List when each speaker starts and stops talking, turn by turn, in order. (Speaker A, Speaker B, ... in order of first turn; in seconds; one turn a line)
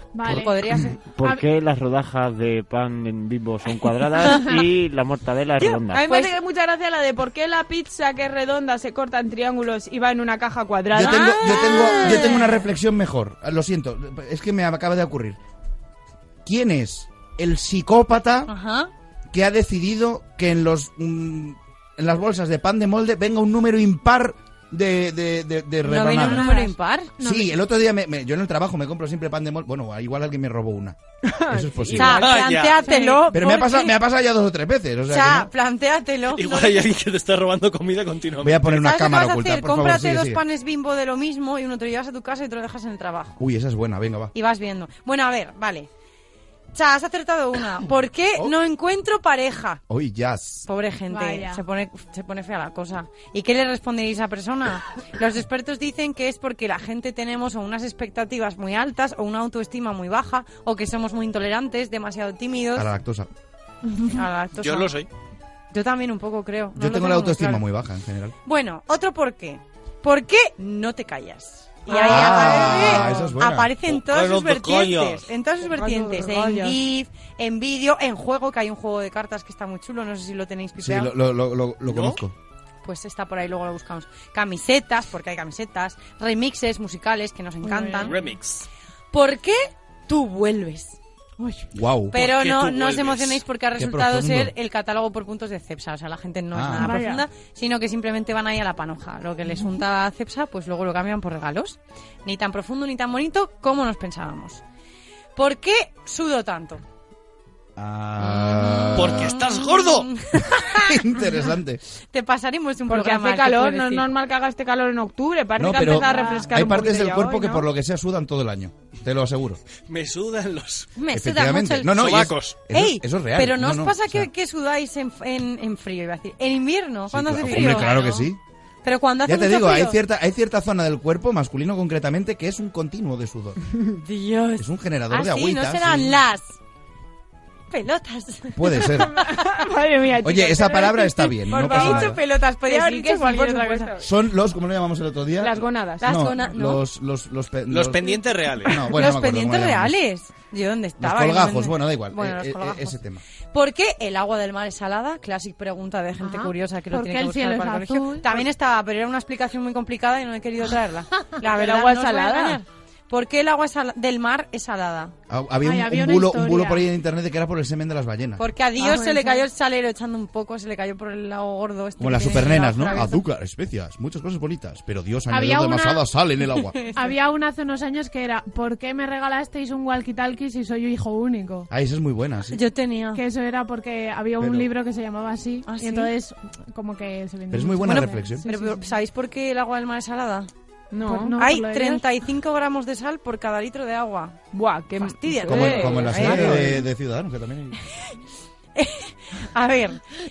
Speaker A: 0.1-1.4
Speaker B: 0.3-1.0
Speaker C: 1.1-6.1
Speaker B: 5.6-6.4
Speaker D: 5.9-12.2
Speaker E: 10.9-15.4
Speaker B: 10.9-12.6
Speaker E: 16.4-18.5
Speaker B: 18.5-18.9
Speaker E: 19.3-26.5
Speaker B: 25.9-27.1
Speaker A: 26.2-27.5
Speaker E: 27.2-31.0
Speaker D: 31.2-33.4
Speaker E: 31.5-32.3
Speaker B: 31.9-34.0
Speaker F: 32.1-32.8
Speaker E: 33.3-35.5
Speaker B: 35.1-36.9
Speaker F: 36.3-38.8
Speaker E: 38.4-40.4
Speaker B: 38.7-43.4
Speaker E: 43.4-44.3
Speaker B: 44.3-45.9
Speaker B: 46.7-49.8
Speaker E: 49.9-50.7
Speaker B: 50.7-62.9
Speaker A: 51.1-51.6
Speaker E: 62.8-63.3
Speaker B: 64.1-64.9
Speaker F: 64.6-65.1
Speaker B: 65.7-67.6
Speaker E: 66.8-68.3
Speaker B: 68.4-81.1
Speaker E: 71.9-73.7
Speaker F: 73.9-75.3
Speaker D: 75.8-76.8
Speaker E: 80.8-82.3
Speaker F: 81.9-82.2
Speaker B: 82.8-88.2
Speaker A: 87.6-88.2
Speaker F: 88.0-88.7
Speaker B: 89.1-91.0
Speaker A: 91.4-91.7
Speaker E: 91.7-92.2
Speaker B: 92.1-104.6
Speaker F: 92.1-93.4
Speaker E: 93.8-94.5
Speaker E: 96.5-97.0
Speaker A: 96.8-97.2
Speaker B: 105.4-106.8
Speaker E: 107.8-109.3
Speaker B: 108.2-111.2
Speaker F: 109.0-110.1
Speaker E: 110.7-111.8
Speaker B: 112.1-114.1
Speaker D: 112.9-117.7
Speaker E: 115.6-119.6
Speaker A: 116.0-116.5
Speaker F: 119.9-120.9
Speaker B: 121.0-122.1
Speaker E: 121.1-124.3
Speaker F: 122.0-122.6
Speaker B: 122.7-128.3
Speaker E: 127.1-128.4
Speaker B: 128.8-130.0
Speaker E: 129.3-133.6
Speaker B: 133.9-136.6
Speaker E: 134.6-136.2
Speaker B: 137.7-139.7
Speaker E: 138.5-139.2
Speaker D: 139.2-144.1
Speaker E: 140.2-142.2
Speaker B: 141.5-144.0
Speaker E: 144.0-148.1
Speaker D: 145.4-146.1
Speaker B: 146.0-146.8
Speaker F: 147.7-148.8
Speaker E: 148.6-150.0
Speaker B: 148.8-153.0
Speaker E: 151.0-153.2
Speaker B: 153.5-165.2
Speaker A: 156.2-158.3
Speaker D: 161.4-162.6
Speaker E: 165.3-168.4
Speaker A: 165.6-166.8
Speaker B: 168.4-173.2
Speaker A: 168.8-169.5
Speaker E: 172.0-176.8
Speaker A: 175.3-176.1
Speaker B: 176.6-177.2
Speaker A: 176.9-181.7
Speaker E: 181.7-182.6
Speaker B: 182.5-183.2
Speaker A: 183.1-188.8
Speaker E: 184.4-184.7
Speaker B: 185.7-186.1
Speaker E: 187.5-188.5
Speaker B: 187.8-190.5
Speaker D: 190.9-191.4
Speaker A: 191.1-192.0
Speaker B: 191.4-194.4
Speaker D: 194.5-196.8
Speaker B: 195.0-196.8
Speaker E: 195.5-197.8
Speaker B: 197.9-198.2
Speaker B: 198.8-200.0